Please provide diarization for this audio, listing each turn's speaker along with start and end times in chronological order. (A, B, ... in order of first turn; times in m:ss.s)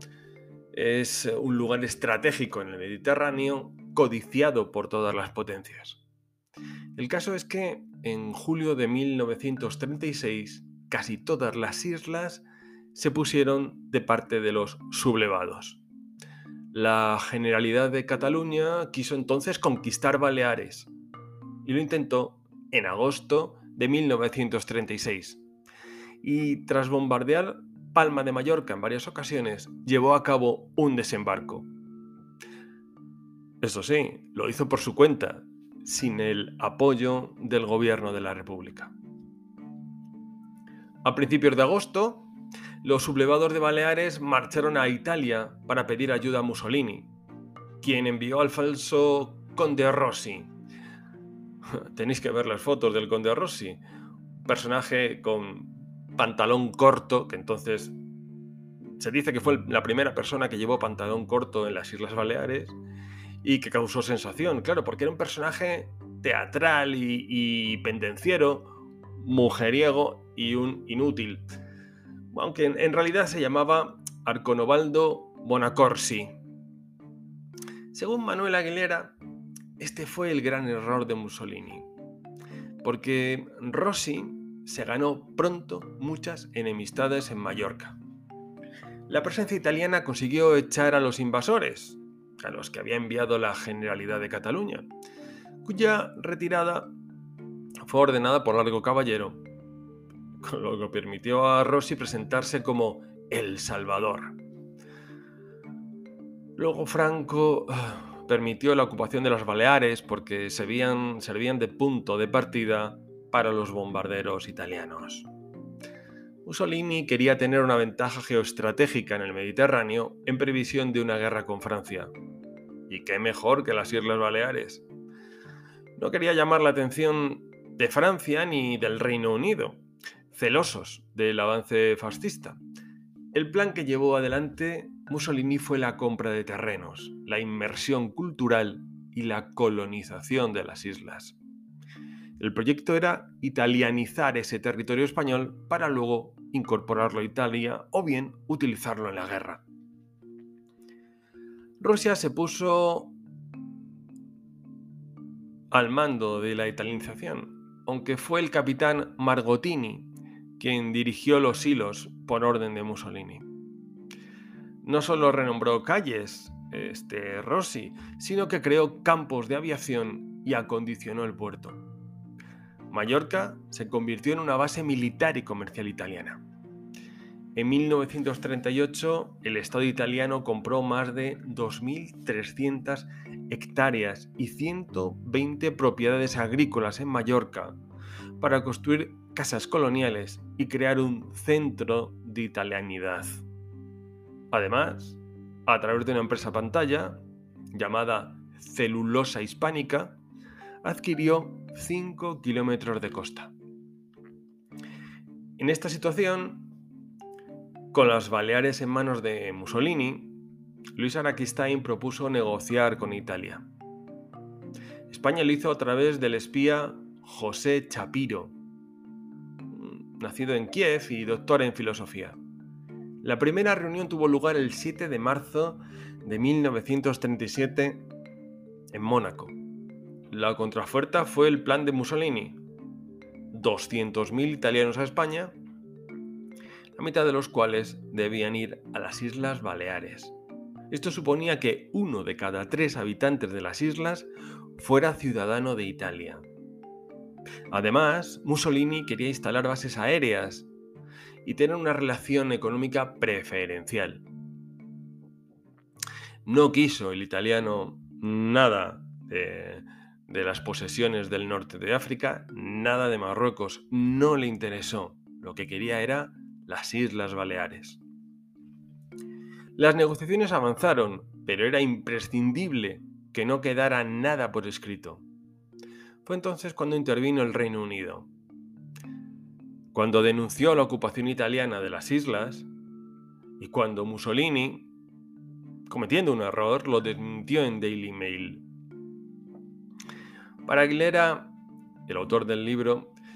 0:00.7-0:06.0 A
0:07.0-0:15.8 A
0:16.7-0:20.9 A
0:21.6-0:25.4 A
0:26.2-0:31.7 A
0:33.6-0:38.9 A
0:41.0-0:42.3 A
0:42.8-0:47.1 A
0:47.8-0:50.5 A
0:51.7-0:53.8 A
0:54.4-0:58.0 A
0:59.0-1:02.8 A
1:03.4-1:11.5 A
1:12.3-1:16.4 A
1:17.9-1:19.2 A
1:19.8-1:21.9 A
1:22.8-1:28.0 A
1:29.1-1:34.9 A
1:35.6-1:36.9 A
1:37.8-1:39.4 A
1:40.4-1:44.4 A
1:46.6-1:55.3 A
1:56.4-2:02.1 A
2:02.9-2:04.9 A
2:06.0-2:12.6 A
2:13.3-2:21.4 A
2:22.4-2:29.6 A
2:31.8-2:33.1 A
2:35.7-2:43.5 A
2:44.8-2:51.8 A
2:52.9-2:56.4 A
2:57.6-3:07.8 A
3:08.4-3:13.4 A
3:14.5-3:17.2 A
3:17.7-3:20.2 A
3:20.8-3:23.5 A
3:25.6-3:26.7 A
3:27.9-3:30.4 A
3:31.0-3:33.6 A
3:35.1-3:38.6 A
3:39.7-3:42.4 A
3:43.2-3:48.1 A
3:48.9-3:49.6 A
3:50.3-3:52.6 A
3:53.5-3:55.6 A
3:57.0-4:00.4 A
4:00.9-4:06.4 A
4:07.7-4:10.7 A
4:11.4-4:14.2 A
4:16.4-4:28.0 A
4:29.8-4:35.2 A
4:36.2-4:38.3 A
4:39.9-4:42.7 A
4:43.6-4:44.9 A
4:45.9-4:48.6 A
4:50.6-4:51.5 A
4:52.1-4:53.2 A